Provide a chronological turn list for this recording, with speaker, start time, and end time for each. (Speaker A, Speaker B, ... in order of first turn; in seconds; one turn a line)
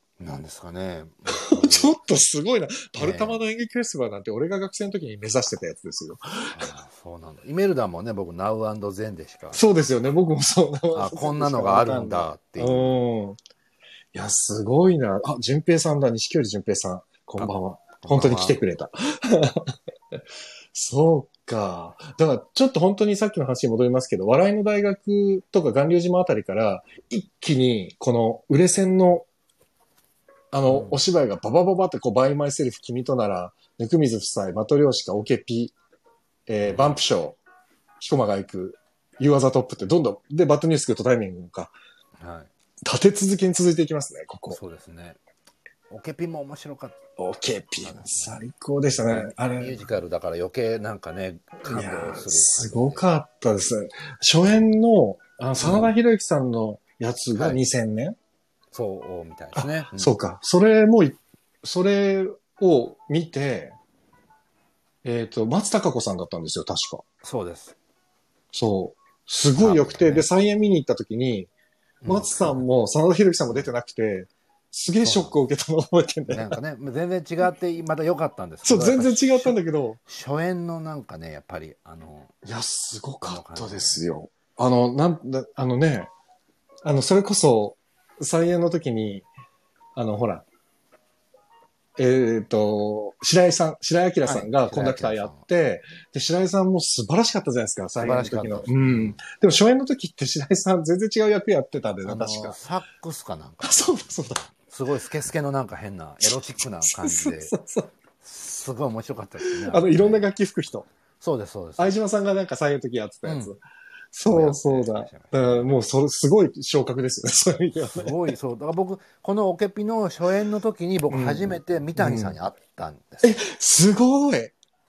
Speaker A: 0.2-2.0
Speaker B: 1.3-6.7
Speaker A: 3.0-3.4
Speaker A: 6.5-9.9
Speaker B: 9.5-13.4
Speaker A: 10.9-13.0
Speaker B: 14.1-19.7
Speaker A: 17.4-18.6
Speaker B: 20.7-29.3
Speaker B: 30.5-35.7
Speaker A: 30.7-31.0
Speaker B: 36.5-37.4
Speaker A: 36.6-37.0
Speaker B: 38.0-41.7
Speaker A: 42.2-42.5
Speaker B: 42.8-44.6
Speaker A: 44.5-45.2
Speaker A: 45.9-47.0
Speaker B: 47.2-49.8
Speaker A: 47.8-48.4
Speaker A: 49.1-53.0
Speaker B: 51.6-58.1
Speaker A: 55.6-55.9
Speaker A: 57.3-57.6
Speaker A: 58.7-60.1
Speaker B: 59.5-63.8
Speaker B: 65.0-67.0
Speaker A: 67.2-67.8
Speaker B: 68.5-71.5
Speaker A: 69.6-70.3
Speaker A: 72.0-72.6
Speaker B: 72.0-76.6
Speaker A: 75.0-75.4
Speaker A: 76.3-82.3
Speaker B: 78.7-80.0
Speaker B: 82.4-86.1
Speaker A: 83.2-84.0
Speaker B: 86.8-89.3
Speaker B: 90.0-90.4
Speaker B: 92.0-102.6
Speaker A: 94.2-95.5
Speaker A: 98.0-99.2
Speaker A: 102.0-107.5
Speaker B: 103.6-104.5
Speaker B: 106.2-107.9
Speaker A: 108.2-110.3
Speaker B: 109.4-110.9
Speaker A: 111.2-112.0
Speaker B: 111.8-113.6
Speaker A: 113.2-113.5
Speaker B: 114.1-118.3
Speaker A: 114.3-115.7
Speaker A: 117.7-123.4
Speaker B: 121.1-122.3
Speaker B: 123.2-124.5